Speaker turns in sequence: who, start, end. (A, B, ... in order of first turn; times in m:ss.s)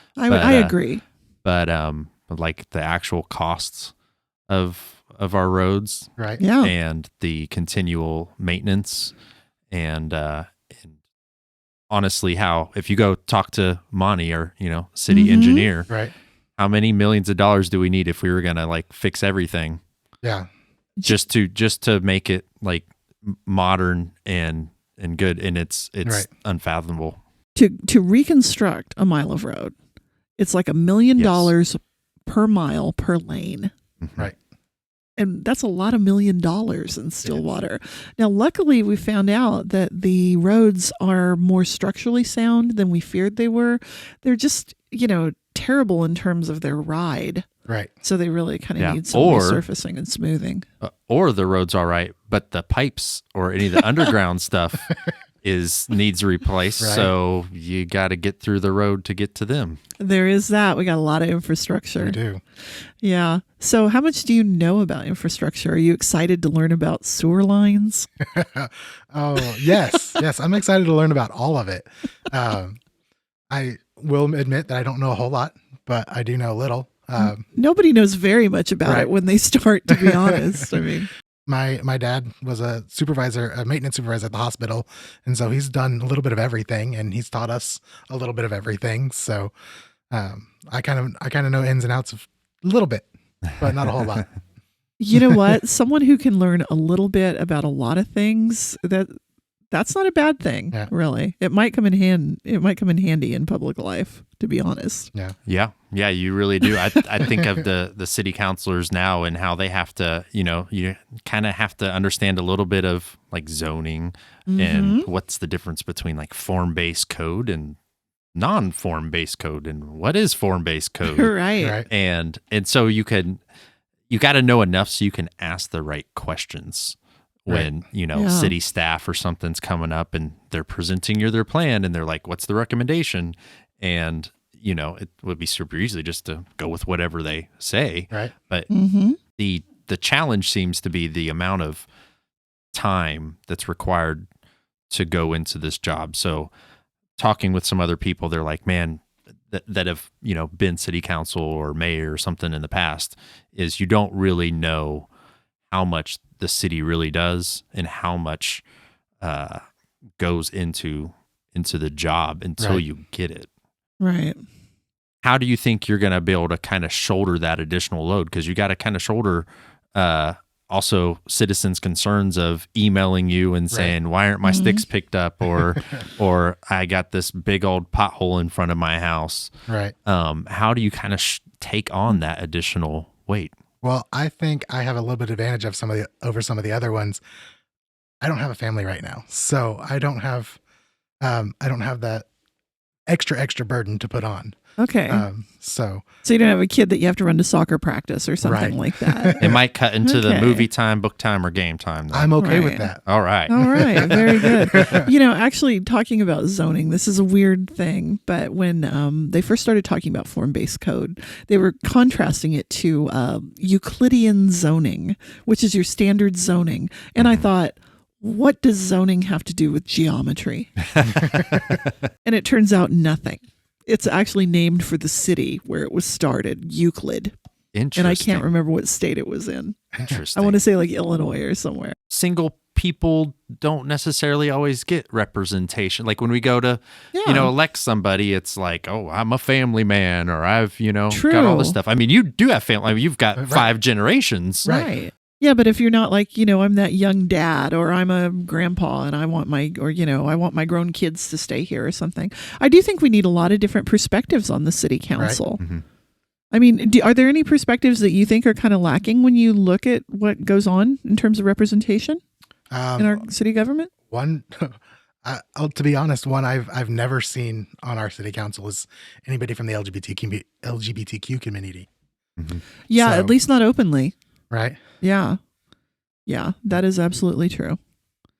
0:00.2-0:01.0 A
0:00.3-0:00.8 B
0:01.4-0:03.9 B
0:04.5-0:06.1 B
0:06.2-0:06.4 C
0:06.4-0:06.7 A
0:06.6-0:09.1 B
0:09.7-0:11.0 B
0:11.9-0:15.9 B
0:15.1-0:15.7 A
0:16.6-0:19.8 B
0:20.2-0:20.5 C
0:21.0-0:27.2 B
0:27.5-0:29.7 A
0:30.4-0:33.7 A
0:31.2-0:31.5 B
0:34.0-0:34.3 B
0:35.2-0:47.4 A
0:48.0-0:50.6 A
0:48.8-0:49.6 B
0:50.8-0:54.9 B
0:55.4-0:59.8 B
0:56.8-0:57.1 C
1:00.0-1:02.2 A
1:02.0-1:02.4 C
1:03.0-1:08.1 A
1:08.2-1:12.8 C
1:13.5-1:17.4 C
1:17.2-1:21.1 A
1:19.9-1:20.4 C
1:21.5-1:29.5 C
1:30.1-1:34.3 C
1:35.0-1:39.1 A
1:39.7-1:45.1 A
1:45.4-1:57.8 B
1:54.5-1:55.1 A
1:58.3-2:01.4 B
2:01.0-2:01.8 A
2:01.6-2:01.9 C
2:01.9-2:03.4 B
2:04.1-2:18.7 B
2:08.1-2:08.5 A
2:18.7-2:19.2 A
2:19.4-2:21.8 B
2:22.7-2:24.2 B
2:24.9-2:26.5 B
2:27.2-2:35.1 B
2:35.7-2:38.6 B
2:39.2-2:39.6 B
2:40.2-2:43.5 B
2:44.0-2:44.4 A
2:45.2-2:59.5 B
2:54.4-2:54.8 A
2:59.7-2:59.9 C
3:00.0-3:03.5 B
3:03.8-3:07.2 C
3:08.2-3:10.6 C
3:11.2-3:12.2 C
3:13.1-3:14.6 C
3:14.8-3:15.2 A
3:15.1-3:16.0 C
3:16.2-3:19.4 A
3:18.4-3:19.6 C
3:19.4-3:22.4 B
3:20.0-3:20.7 A
3:22.1-3:25.1 C
3:22.4-3:22.9 A
3:23.0-3:24.5 B
3:23.5-3:40.8 A
3:37.2-3:37.5 B
3:41.0-3:41.9 B
3:42.2-3:47.3 A
3:47.7-3:48.4 B
3:47.9-3:52.0 A
3:50.0-3:50.6 B
3:52.1-4:04.7 B
3:57.1-3:57.5 A
4:01.1-4:01.8 A
4:03.4-4:03.7 C
4:04.6-4:04.9 C
4:04.6-4:15.6 A
4:15.6-4:15.8 B
4:16.5-4:22.2 A
4:22.7-4:23.2 C
4:23.0-4:23.9 A
4:24.1-4:31.9 C
4:32.4-4:32.6 B
4:32.9-4:34.1 A
4:33.0-4:33.4 C
4:34.5-4:34.8 C
4:35.0-4:35.4 A
4:36.2-4:37.8 A